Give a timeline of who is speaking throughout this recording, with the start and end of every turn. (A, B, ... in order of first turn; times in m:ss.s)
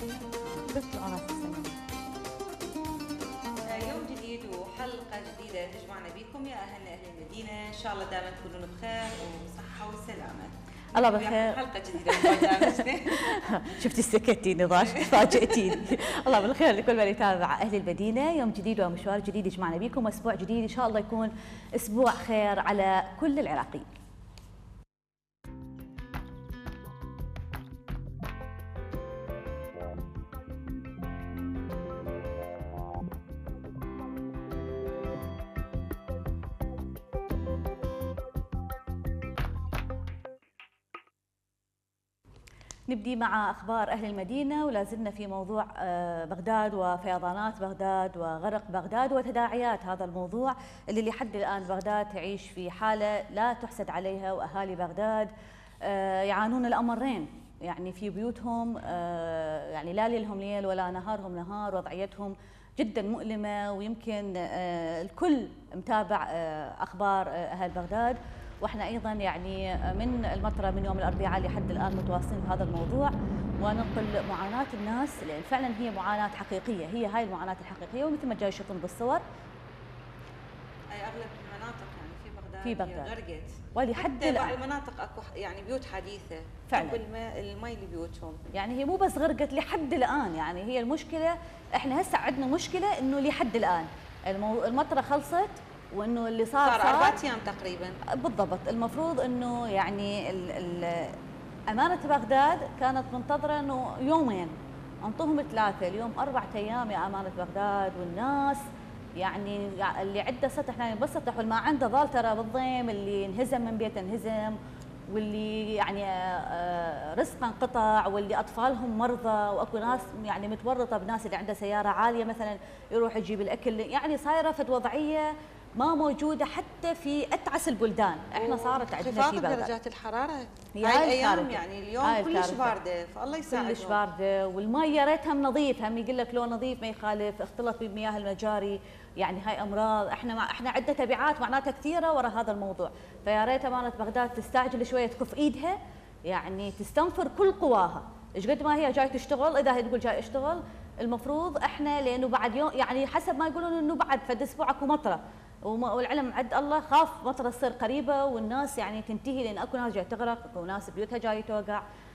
0:00.5-0:01.8 A
0:03.7-0:13.4 B
0:11.0-0:11.6 A
0:12.1-0:12.7 A
0:13.3-0:23.9 A
0:14.8-0:15.8 B
0:42.9-0:55.3 A
0:55.8-1:19.2 A
1:20.9-1:28.4 B
1:22.6-1:23.1 A
1:23.8-1:24.5 A
1:26.7-1:27.0 A
1:28.5-1:37.2 A
1:36.6-1:38.0 B
1:38.2-1:41.2 A
1:41.7-1:48.6 A
1:49.2-1:54.6 A
1:55.1-2:09.7 A
2:08.4-2:14.0 B
2:10.8-2:12.8 A
2:13.5-2:41.8 A